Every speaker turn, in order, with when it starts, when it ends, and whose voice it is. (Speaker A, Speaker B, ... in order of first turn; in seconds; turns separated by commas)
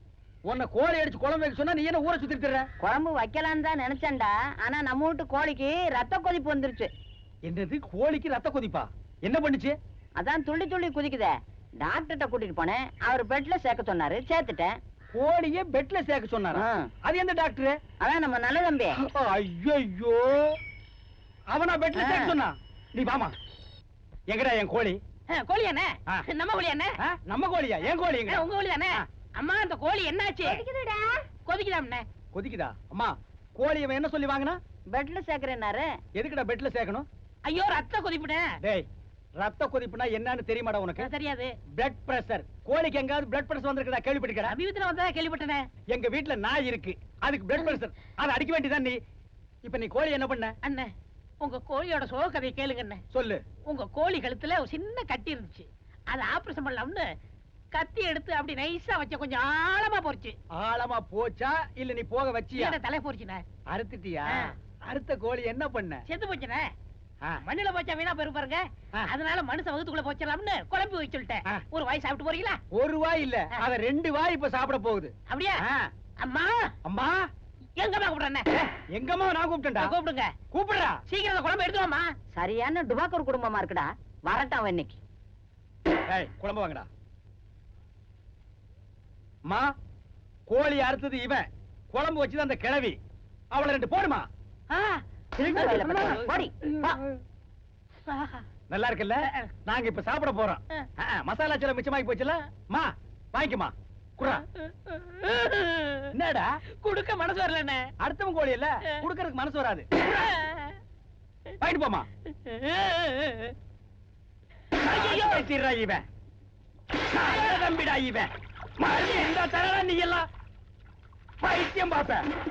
Speaker A: 0.5-2.7, Speaker B: 2.8-6.9, Speaker A: 7.5-9.7, Speaker B: 10.2-14.8, Speaker A: 15.1-17.8, Speaker B: 16.5-16.9, Speaker B: 18.0-19.0, Speaker A: 19.0-20.6, Speaker A: 21.5-23.3, Speaker C: 22.0-22.3, Speaker A: 24.3-25.0, Speaker C: 25.3-26.9, Speaker A: 27.0-29.1, Speaker C: 28.3-30.6, Speaker B: 30.4-31.2, Speaker C: 31.5-32.1, Speaker A: 32.3-34.6, Speaker B: 34.9-35.9, Speaker A: 36.1-37.1, Speaker C: 37.5-38.5, Speaker A: 39.4-41.1, Speaker C: 41.0-41.5, Speaker A: 41.7-44.5, Speaker C: 44.5-45.7, Speaker A: 45.9-49.0, Speaker A: 49.6-50.5, Speaker C: 50.6-53.0, Speaker A: 53.1-53.4, Speaker C: 53.7-57.1, Speaker C: 57.7-60.4, Speaker A: 60.5-62.8, Speaker C: 62.6-63.4, Speaker A: 63.7-66.1, Speaker C: 64.3-64.5, Speaker C: 66.1-66.7, Speaker C: 67.4-72.6, Speaker A: 72.7-75.9, Speaker C: 75.3-75.6, Speaker C: 76.2-76.7, Speaker A: 76.8-77.2, Speaker C: 77.8-78.5, Speaker A: 78.5-80.0, Speaker C: 79.8-80.3, Speaker A: 80.5-81.0, Speaker C: 81.1-82.1, Speaker B: 82.3-85.0, Speaker A: 86.1-86.9, Speaker A: 90.5-93.0, Speaker A: 93.5-94.3, Speaker C: 94.7-95.0, Speaker B: 95.4-97.0, Speaker C: 95.5-97.2, Speaker C: 98.1-98.5, Speaker A: 98.7-104.5, Speaker C: 99.3-99.5, Speaker C: 104.6-106.1, Speaker A: 106.1-106.6, Speaker C: 106.8-107.9, Speaker A: 108.0-109.9, Speaker C: 110.0-110.8, Speaker A: 111.6-112.1, Speaker C: 112.4-113.5, Speaker C: 114.8-115.5, Speaker A: 114.8-116.0, Speaker A: 117.0-120.2, Speaker C: 117.2-117.6, Speaker A: 121.4-122.2